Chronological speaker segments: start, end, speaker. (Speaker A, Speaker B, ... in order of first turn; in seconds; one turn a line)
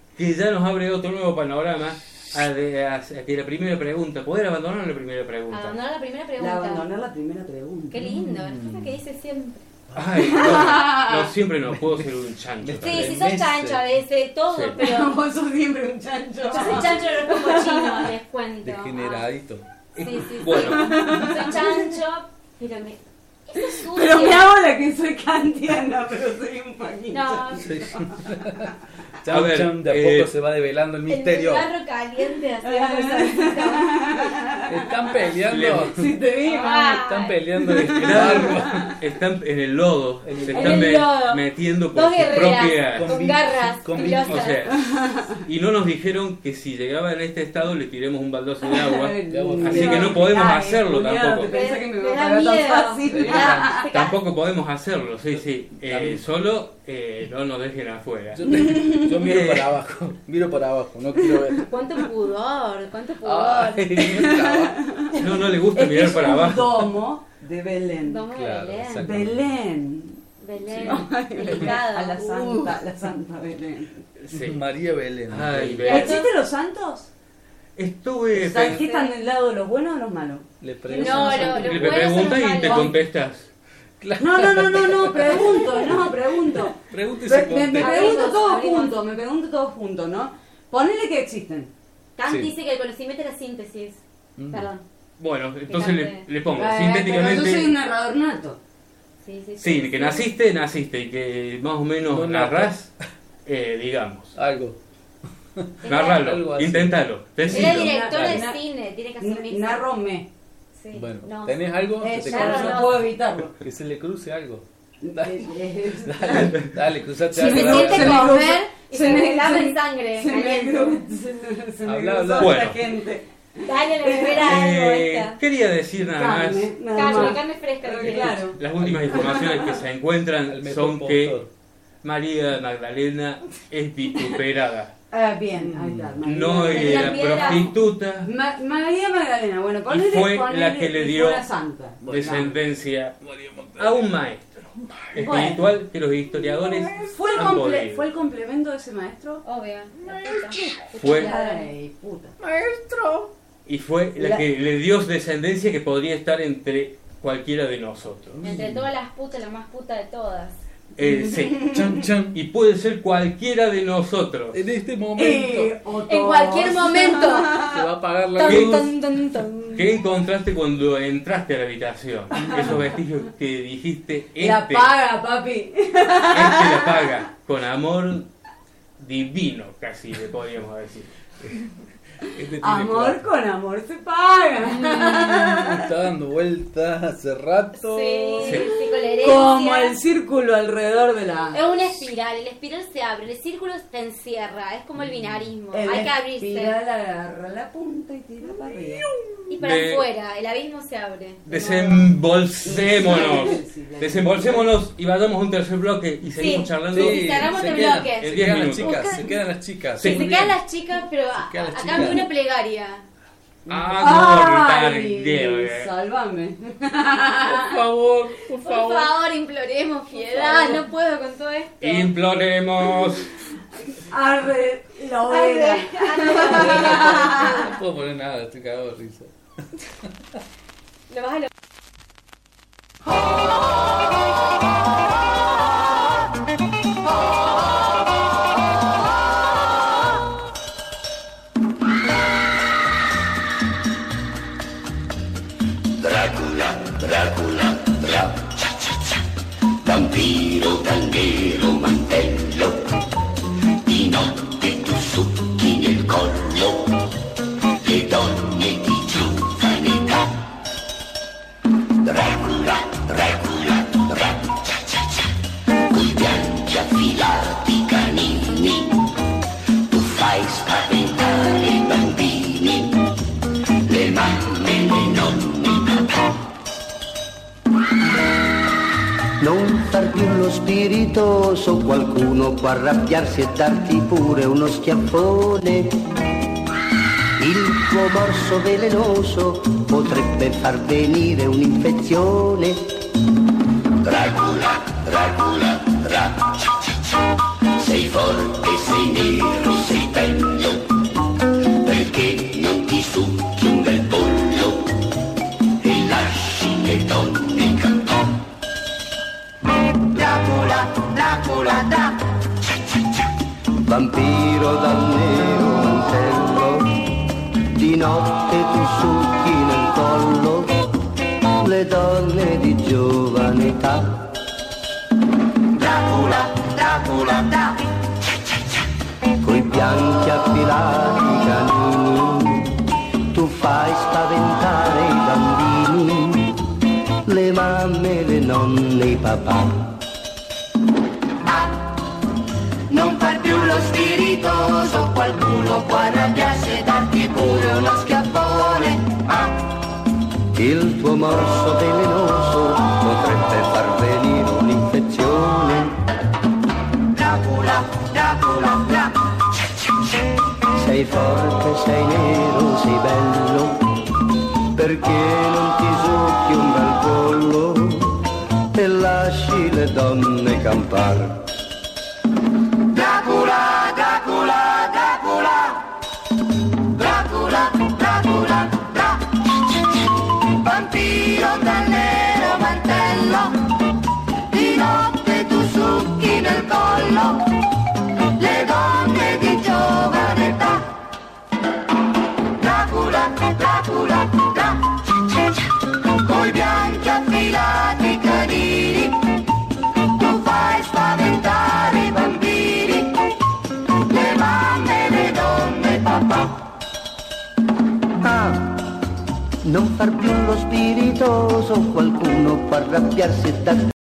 Speaker A: 0.2-5.8
Speaker B: 5.5-6.9
Speaker C: 6.4-8.1
Speaker B: 7.9-9.6
Speaker D: 8.0-9.0
Speaker D: 9.9-10.8
Speaker A: 9.9-13.2
Speaker C: 10.3-11.3
Speaker D: 11.7-13.9
Speaker B: 12.8-15.2
Speaker A: 14.5-14.8
Speaker C: 14.8-18.1
Speaker B: 16.5-19.3
Speaker D: 18.6-20.5
Speaker B: 20.0-24.5
Speaker A: 20.2-21.2
Speaker C: 20.5-21.8
Speaker C: 23.6-27.8
Speaker B: 27.1-28.0
Speaker D: 27.6-28.7
Speaker D: 29.2-31.7
Speaker A: 29.3-30.3
Speaker B: 31.1-34.0
Speaker C: 32.6-34.6
Speaker D: 34.7-36.0
Speaker A: 35.5-35.9
Speaker C: 35.9-37.0
Speaker B: 36.4-38.0
Speaker D: 36.9-38.8
Speaker C: 37.7-38.6
Speaker A: 37.9-43.1
Speaker D: 40.2-41.1
Speaker B: 40.5-41.4
Speaker B: 41.9-44.6
Speaker D: 42.8-44.6
Speaker A: 44.0-44.8
Speaker C: 44.7-45.3
Speaker A: 45.4-51.5
Speaker C: 48.6-54.0
Speaker D: 49.3-50.3
Speaker B: 51.4-54.0
Speaker D: 53.0-53.9
Speaker A: 53.9-59.8
Speaker D: 55.8-56.2
Speaker D: 58.3-61.9
Speaker B: 61.6-64.4
Speaker D: 63.2-64.8
Speaker C: 64.0-65.2
Speaker A: 65.2-66.9
Speaker C: 65.7-68.2
Speaker B: 68.0-69.2
Speaker D: 68.3-69.5
Speaker C: 69.0-70.2
Speaker B: 70.4-72.7
Speaker C: 70.8-74.0
Speaker D: 71.5-71.8
Speaker A: 74.2-74.6
Speaker D: 74.3-76.0
Speaker A: 75.3-76.2
Speaker C: 75.9-77.1
Speaker B: 75.9-76.3
Speaker A: 77.8-78.9
Speaker C: 78.3-83.0
Speaker B: 78.7-79.1
Speaker D: 80.6-82.1
Speaker B: 80.9-83.0
Speaker A: 81.5-83.5
Speaker D: 84.0-88.3
Speaker C: 84.2-91.7
Speaker B: 87.7-89.0
Speaker B: 92.2-94.8
Speaker D: 92.3-92.5
Speaker D: 94.4-94.7
Speaker A: 95.2-97.7
Speaker B: 95.7-96.2
Speaker C: 96.6-98.6
Speaker B: 99.2-100.3
Speaker A: 99.6-102.9
Speaker D: 102.1-102.8
Speaker A: 103.5-104.4
Speaker D: 104.3-104.8
Speaker D: 105.6-108.5
Speaker B: 105.8-106.2
Speaker A: 105.9-107.9
Speaker B: 107.5-109.8
Speaker C: 107.5-108.6
Speaker C: 109.2-110.3
Speaker B: 110.8-113.0
Speaker D: 110.9-113.0
Speaker C: 112.0-113.5
Speaker D: 113.6-114.7
Speaker C: 115.0-116.5
Speaker D: 115.2-115.5
Speaker D: 116.0-118.5
Speaker A: 116.3-116.8
Speaker B: 117.3-121.0
Speaker C: 117.3-124.6
Speaker D: 121.8-122.8
Speaker A: 122.4-122.8
Speaker B: 123.6-125.4
Speaker A: 124.4-127.3
Speaker C: 126.0-128.6
Speaker B: 126.9-128.6
Speaker D: 127.0-127.3
Speaker A: 128.6-131.4
Speaker D: 128.8-129.4
Speaker C: 129.1-129.6
Speaker D: 130.5-131.5
Speaker A: 132.0-134.9
Speaker C: 135.1-137.7
Speaker D: 135.6-136.2
Speaker A: 136.2-138.3
Speaker B: 136.7-137.8
Speaker C: 138.2-142.5
Speaker A: 139.9-141.5
Speaker D: 142.0-142.6
Speaker A: 142.1-143.2
Speaker D: 143.2-144.1
Speaker A: 143.8-144.5
Speaker D: 144.8-145.1
Speaker A: 145.1-148.1
Speaker C: 145.2-145.6
Speaker C: 147.1-149.4
Speaker B: 149.4-151.7
Speaker A: 151.0-151.3
Speaker C: 151.0-152.3
Speaker D: 152.4-153.3
Speaker A: 153.7-158.6
Speaker D: 158.4-158.8
Speaker B: 158.4-160.6
Speaker A: 161.0-161.7
Speaker D: 161.7-162.4
Speaker A: 162.3-164.6
Speaker D: 164.5-165.8
Speaker C: 165.2-167.8
Speaker B: 166.1-167.6
Speaker D: 167.7-169.0
Speaker B: 168.4-169.9
Speaker A: 168.4-168.9
Speaker A: 169.7-174.9
Speaker D: 172.4-172.9
Speaker C: 174.4-177.1
Speaker A: 176.3-178.3
Speaker A: 179.0-181.1
Speaker D: 182.3-183.2
Speaker C: 182.6-185.8
Speaker D: 184.8-188.6
Speaker B: 187.8-190.0
Speaker C: 188.4-188.7
Speaker A: 188.4-188.7
Speaker C: 189.2-191.7
Speaker B: 191.5-196.8
Speaker D: 195.1-195.4
Speaker C: 195.7-199.1
Speaker B: 199.5-201.7
Speaker A: 199.6-200.0
Speaker A: 201.5-209.2
Speaker C: 201.5-202.1
Speaker C: 202.6-204.7
Speaker B: 206.4-209.3
Speaker D: 206.9-210.5
Speaker A: 210.0-210.6
Speaker B: 210.0-213.1
Speaker D: 211.3-212.3
Speaker C: 213.7-217.8
Speaker A: 213.7-215.9
Speaker D: 217.4-219.2
Speaker B: 218.5-221.9
Speaker C: 220.4-220.8
Speaker D: 220.4-220.7
Speaker A: 221.8-223.3
Speaker C: 224.1-227.5
Speaker B: 225.3-227.7
Speaker D: 226.6-229.3
Speaker B: 231.1-231.5
Speaker E: 246.0-248.9
Speaker E: 249.8-252.9
Speaker E: 253.8-257.0
Speaker E: 257.8-260.3
Speaker E: 262.0-265.3
Speaker E: 265.9-269.0
Speaker E: 269.9-273.1
Speaker E: 273.9-276.3
Speaker F: 279.4-285.9
Speaker F: 287.4-292.8
Speaker E: 294.0-296.9
Speaker E: 297.8-300.9
Speaker E: 301.8-304.9
Speaker E: 305.8-308.2
Speaker G: 310.1-312.1
Speaker F: 313.9-316.9
Speaker F: 317.8-320.8
Speaker F: 321.6-324.2
Speaker G: 325.8-327.8
Speaker F: 329.4-332.8
Speaker F: 333.3-336.6
Speaker F: 337.3-339.8
Speaker G: 341.5-341.8
Speaker G: 342.9-349.5
Speaker F: 350.6-356.0
Speaker G: 357.2-359.1
Speaker F: 360.8-363.8
Speaker F: 364.8-368.2
Speaker F: 368.7-371.4
Speaker G: 372.9-375.8
Speaker G: 376.9-379.2
Speaker G: 380.6-383.7
Speaker G: 384.5-387.5
Speaker G: 388.4-390.8
Speaker G: 392.6-394.8
Speaker G: 396.2-399.2
Speaker G: 400.1-403.2
Speaker G: 404.1-406.6
Speaker F: 408.2-408.7
Speaker F: 409.6-413.9